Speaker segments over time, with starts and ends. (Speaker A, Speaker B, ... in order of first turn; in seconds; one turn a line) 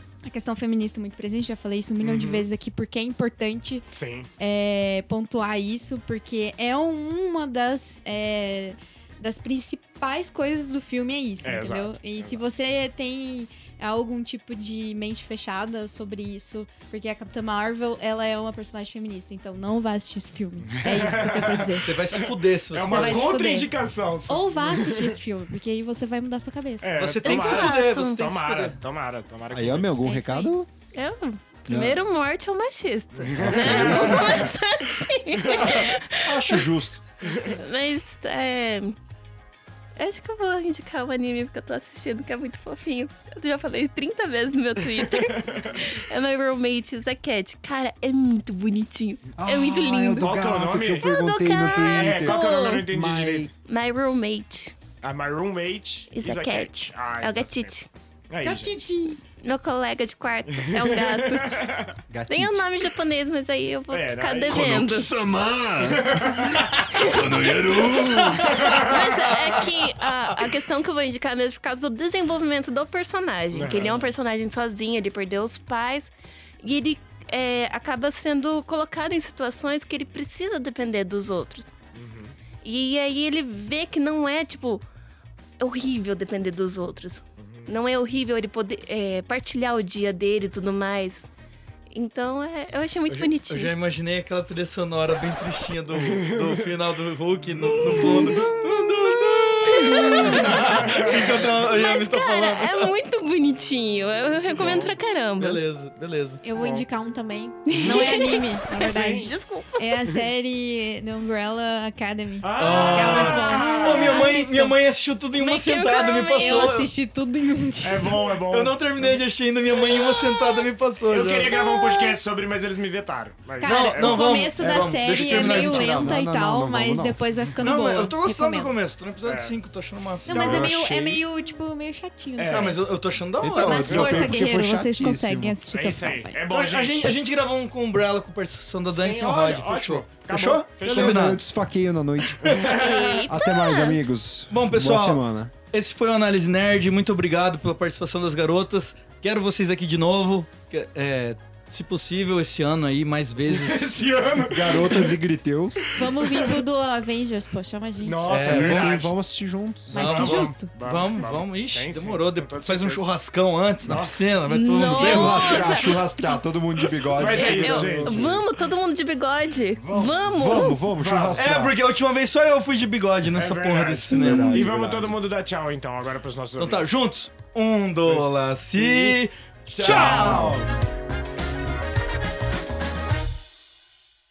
Speaker A: 0.2-3.8
Speaker B: 2.0-2.5
Speaker B: 3.9-4.3
Speaker A: 4.4-21.9
Speaker B: 11.4-12.4
Speaker B: 20.7-25.2
Speaker C: 21.8-23.4
Speaker A: 22.8-23.7
Speaker A: 24.3-26.9
Speaker B: 26.8-29.9
Speaker C: 27.0-28.8
Speaker D: 27.2-28.2
Speaker E: 29.5-30.7
Speaker A: 30.0-30.5
Speaker D: 30.9-36.7
Speaker E: 31.7-32.0
Speaker B: 33.2-34.5
Speaker E: 33.4-34.5
Speaker B: 35.4-35.9
Speaker E: 35.5-37.1
Speaker D: 37.2-39.0
Speaker B: 37.2-37.5
Speaker D: 40.0-50.3
Speaker B: 45.0-45.9
Speaker E: 49.4-53.5
Speaker B: 50.2-51.1
Speaker D: 51.0-52.8
Speaker B: 51.7-53.5
Speaker D: 53.6-54.7
Speaker B: 55.0-57.7
Speaker D: 56.1-57.9
Speaker B: 58.3-58.8
Speaker E: 58.4-59.2
Speaker D: 59.4-61.6
Speaker B: 60.5-62.0
Speaker E: 62.1-62.9
Speaker D: 62.3-65.2
Speaker B: 63.9-64.7
Speaker E: 64.5-68.8
Speaker B: 65.8-67.2
Speaker D: 66.9-68.0
Speaker C: 68.0-68.5
Speaker B: 68.4-69.4
Speaker D: 68.6-81.7
Speaker B: 73.5-74.1
Speaker B: 81.9-82.3
Speaker D: 82.6-84.8
Speaker D: 85.6-91.3
Speaker B: 87.4-87.7
Speaker D: 91.9-93.7
Speaker C: 93.1-102.9
Speaker B: 96.0-96.7
Speaker B: 97.6-98.3
Speaker D: 98.0-105.6
Speaker B: 100.5-101.5
Speaker B: 104.6-104.9
Speaker C: 105.4-106.4
Speaker A: 106.4-114.8
Speaker B: 106.5-106.8
Speaker D: 107.7-110.1
Speaker B: 107.7-108.2
Speaker B: 108.8-109.3
Speaker B: 112.4-114.3
Speaker C: 112.6-116.9
Speaker A: 115.3-118.2
Speaker D: 115.4-116.8
Speaker B: 117.8-119.2
Speaker C: 118.5-121.6
Speaker B: 121.1-124.5
Speaker A: 123.6-128.7
Speaker C: 123.6-126.1
Speaker E: 124.7-127.2
Speaker C: 127.6-130.7
Speaker B: 129.2-129.6
Speaker A: 130.2-132.8
Speaker E: 130.3-131.2
Speaker B: 132.4-132.8
Speaker C: 132.5-134.1
Speaker E: 133.4-135.6
Speaker A: 133.4-136.4
Speaker B: 133.9-134.3
Speaker B: 135.7-137.2
Speaker C: 136.5-141.4
Speaker B: 138.9-141.4
Speaker E: 140.8-142.6
Speaker C: 142.4-142.9
Speaker B: 142.4-143.2
Speaker D: 142.7-144.0
Speaker E: 143.2-145.5
Speaker C: 144.5-154.1
Speaker B: 153.4-155.2
Speaker E: 154.5-155.8
Speaker B: 155.8-156.6
Speaker A: 155.9-158.2
Speaker B: 158.0-159.1
Speaker C: 158.3-159.0
Speaker E: 158.3-160.3
Speaker A: 159.9-160.7
Speaker C: 159.9-165.7
Speaker B: 159.9-163.0
Speaker B: 163.8-164.3
Speaker D: 164.5-166.4
Speaker B: 164.9-165.8
Speaker E: 165.0-168.4
Speaker B: 167.1-168.4
Speaker D: 167.2-170.9
Speaker E: 169.9-171.8
Speaker B: 170.9-171.5
Speaker C: 171.4-174.7
Speaker B: 173.3-177.0
Speaker E: 174.1-175.2
Speaker C: 176.6-180.6
Speaker B: 178.0-179.2
Speaker B: 179.7-180.7
Speaker E: 179.8-180.7